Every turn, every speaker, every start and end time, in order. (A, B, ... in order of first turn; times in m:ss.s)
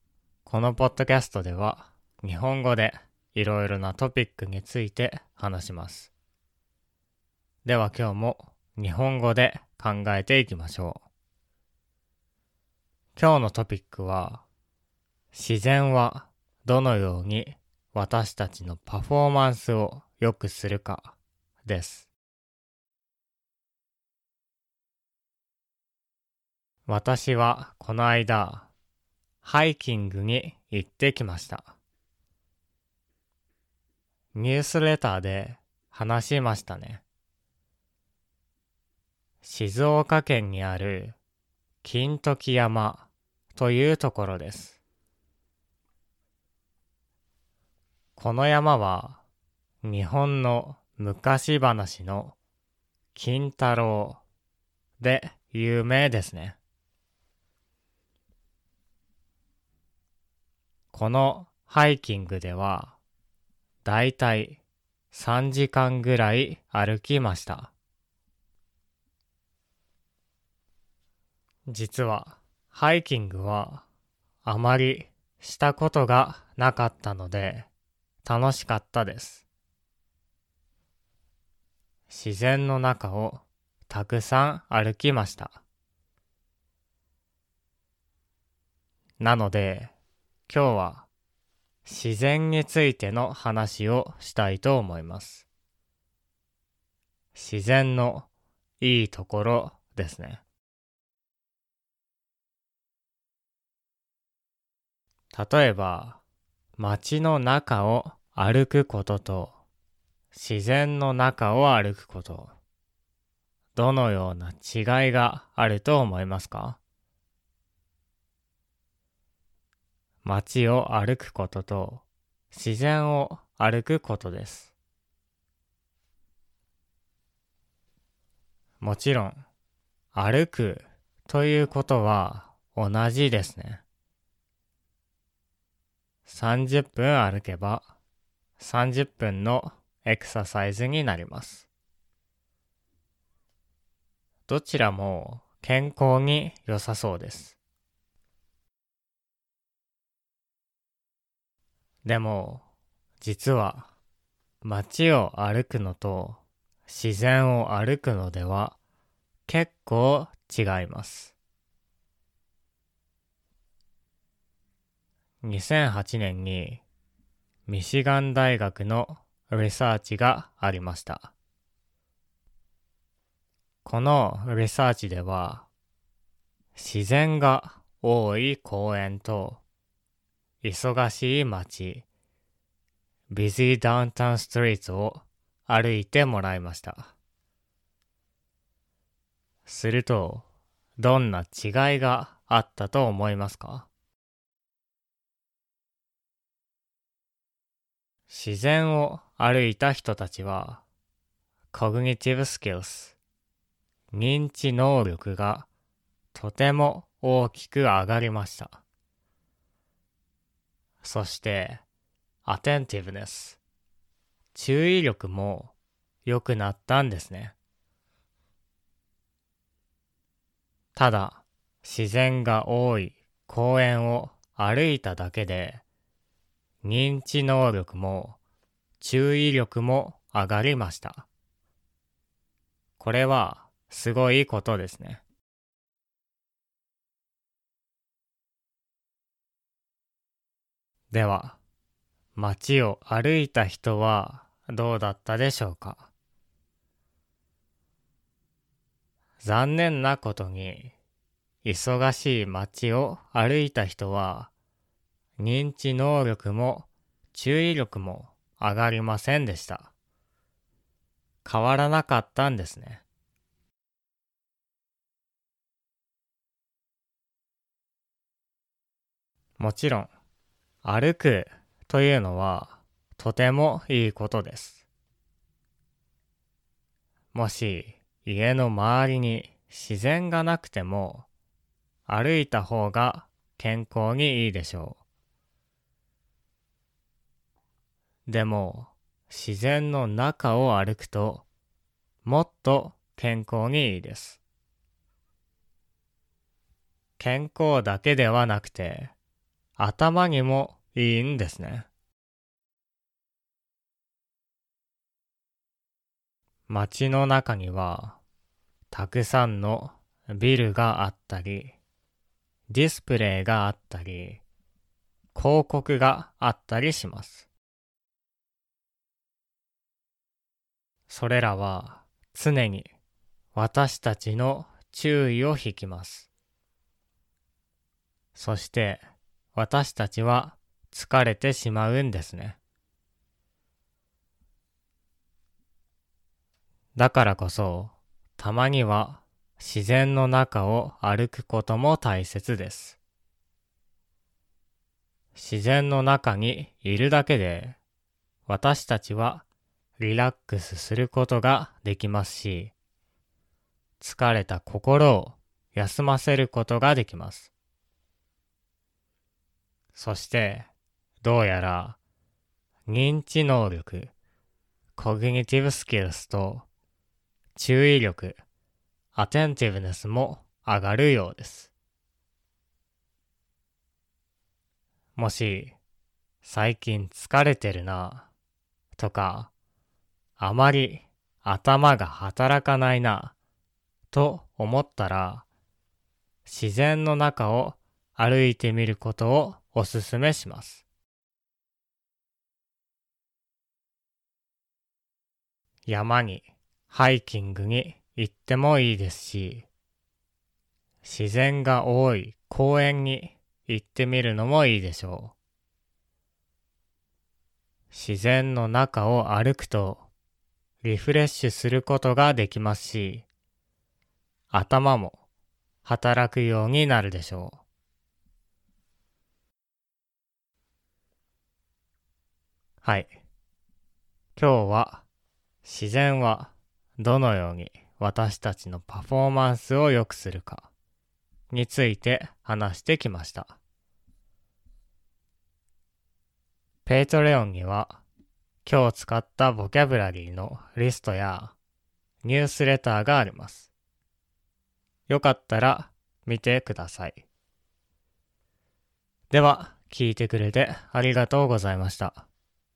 0:00.4-0:06.1 A
0:07.6-0:11.0 A
0:13.2-0:14.4 A
0:15.3-0:22.1 A
0:26.9-0:28.7 A
0:29.4-0:31.8 A
0:34.3-0:37.0 A
0:39.4-0:41.2 A
0:41.8-0:44.8 A
0:48.2-0:49.2 A
0:49.8-0:52.4 A
0:53.1-0:54.2 A
0:55.0-0:56.6 A
1:00.9-1:03.0 A
1:03.8-1:04.6 A
1:05.1-1:07.7 A
1:11.7-1:13.8 A
1:14.4-1:17.7 A
1:18.2-1:19.4 A
1:22.1-1:25.6 A
1:29.2-1:29.9 A
1:30.5-1:31.1 A
1:31.8-1:35.5 A
1:37.3-1:38.3 A
1:38.8-1:40.4 A
1:45.3-1:46.2 A
1:46.8-1:49.6 A
1:50.3-1:52.5 A
1:53.8-1:56.8 A
2:00.2-2:04.7 A
2:08.8-2:09.4 A
2:10.1-2:13.8 A
2:16.3-2:17.9 A
2:18.6-2:21.7 A
2:24.5-2:27.6 A
2:32.0-2:32.7 A
2:33.2-2:33.9 A
2:34.6-2:38.8 A
2:39.5-2:41.4 A
2:45.4-2:46.8 A
2:47.7-2:51.3 A
2:53.8-2:55.7 A
2:56.8-2:59.6 A
3:00.6-3:02.1 A
3:03.3-3:07.1 A
3:09.7-3:10.5 A
3:11.0-3:13.9 A
3:18.3-3:20.8 A
3:21.7-3:23.2 A
3:24.1-3:25.7 A
3:26.3-3:28.8 A
3:31.0-3:31.8 A
3:32.4-3:33.6 A
3:34.5-3:35.7 A
3:36.2-3:37.6 A
3:41.0-3:45.8 A
3:46.8-3:48.4 A
3:49.0-3:51.3 A
3:53.0-3:55.2 A
4:01.1-4:01.6 A
4:02.4-4:06.1 A
4:09.4-4:10.9 A
4:11.6-4:14.5 A
4:15.4-4:19.9 A
4:21.4-4:23.0 A
4:29.6-4:30.1 A
4:30.8-4:34.8 A
4:37.3-4:41.3 A
4:42.1-4:45.0 A
4:48.3-4:51.4 A
4:52.2-4:54.4 A
4:57.2-4:59.1 A
4:59.8-5:01.9 A
5:06.7-5:08.2 A
5:08.9-5:11.8 A
5:12.7-5:14.4 A
5:15.3-5:17.5 A
5:21.1-5:22.9 A
5:23.5-5:26.3 A
5:28.4-5:29.0 A
5:29.6-5:32.6 A
5:37.0-5:43.0 A
5:45.3-5:47.8 A
5:48.5-5:49.4 A
5:50.0-5:52.7 A
5:54.0-5:57.5 A
6:00.0-6:00.7 A
6:01.2-6:02.0 A
6:02.9-6:04.1 A
6:05.0-6:06.7 A
6:07.6-6:08.4 A
6:09.1-6:11.7 A
6:15.2-6:15.8 A
6:16.4-6:18.3 A
6:19.0-6:19.5 A
6:20.4-6:23.4 A
6:24.1-6:25.5 A
6:26.4-6:30.8 A
6:35.9-6:39.7 A
6:41.0-6:45.4 A
6:47.9-6:50.1 A
6:50.8-6:53.3 A
6:54.5-6:55.2 A
6:55.8-6:57.6 A
7:02.8-7:03.1 A
7:04.4-7:05.0 A
7:05.6-7:10.7 A
7:11.5-7:13.6 A
7:16.9-7:18.0 A
7:18.6-7:21.6 A
7:22.2-7:23.7 A
7:25.1-7:27.2 A
7:29.3-7:32.3 A